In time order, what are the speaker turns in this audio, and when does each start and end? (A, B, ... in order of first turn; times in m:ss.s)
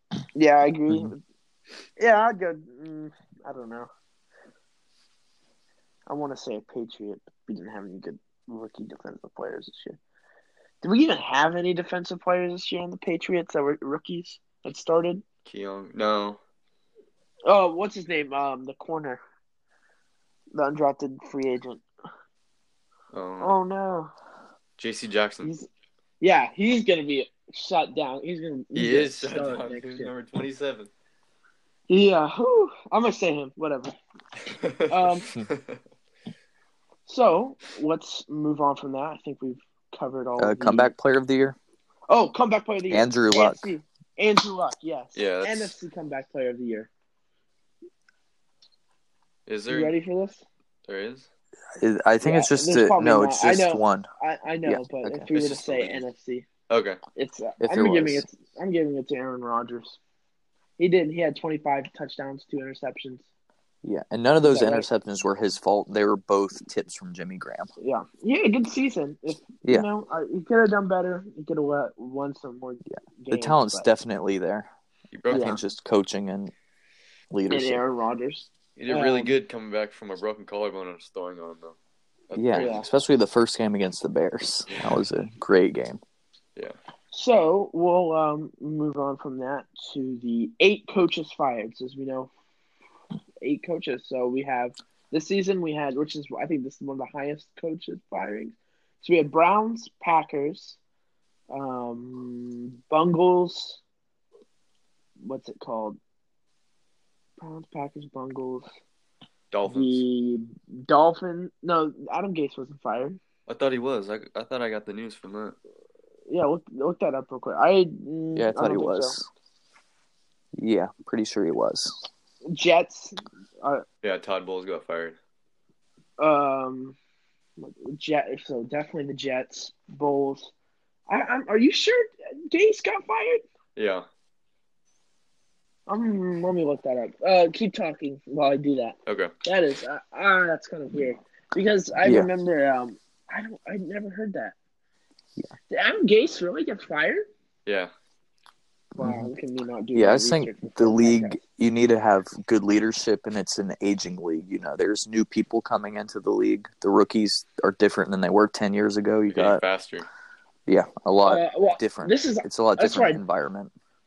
0:00.3-0:01.2 A
0:02.0-0:03.9 A
0:06.1-0:10.0 A
0:10.8-0:15.2 A
0:15.4-0:16.4 B
0:17.4-0:19.2 A
0:20.5-0:21.8 A
0:23.1-0:23.5 B
0:23.4-0:24.1 A
0:24.8-0:25.5 B
0:25.4-0:25.7 A
0:26.2-0:30.1 A
0:28.7-0:30.9 B
0:31.9-0:34.0 A
0:34.5-0:35.8 B
0:34.9-0:35.3 A
0:37.0-0:40.9 A
0:40.4-0:41.6 C
0:42.1-0:46.9 A
0:42.9-0:43.7 C
0:45.2-0:45.7 B
0:49.5-0:49.9 B
0:49.7-0:50.4 A
0:50.9-0:51.3 B
0:51.8-0:54.1 C
0:52.2-0:56.5 A
0:54.6-0:55.3 C
0:55.3-0:56.0 B
0:56.7-0:57.0 B
0:57.1-1:00.0 A
0:57.6-0:58.2 C
1:00.8-1:03.2 A
1:03.8-1:07.7 C
1:04.4-1:04.9 A
1:07.8-1:13.9 A
1:12.9-1:14.7 C
1:15.1-1:15.6 B
1:15.3-1:15.6 A
1:15.3-1:16.5 C
1:17.3-1:17.8 C
1:17.5-1:19.3 A
1:18.8-1:21.8 B
1:22.3-1:22.8 B
1:22.4-1:26.0 C
1:22.5-1:22.8 A
1:24.7-1:25.0 B
1:27.1-1:32.3 A
1:33.4-1:40.8 A
1:41.5-1:43.8 A
1:45.2-1:46.0 A
1:47.4-1:48.7 A
1:49.5-1:50.0 B
1:49.6-1:53.2 A
1:53.5-1:55.6 B
1:56.3-1:59.2 A
1:58.4-1:59.3 C
2:00.6-2:02.0 C
2:02.5-2:03.8 A
2:04.0-2:05.2 B
2:06.2-2:07.0 A
2:07.6-2:10.5 A
2:11.1-2:13.4 A
2:13.8-2:14.0 B
2:15.9-2:24.6 A
2:19.1-2:19.3 B
2:22.0-2:22.3 C
2:25.7-2:27.3 A
2:27.6-2:27.9 B
2:29.0-2:29.3 C
2:29.0-2:31.4 A
2:29.9-2:39.6 C
2:39.3-2:40.1 B
2:40.7-2:43.7 C
2:41.2-2:43.2 A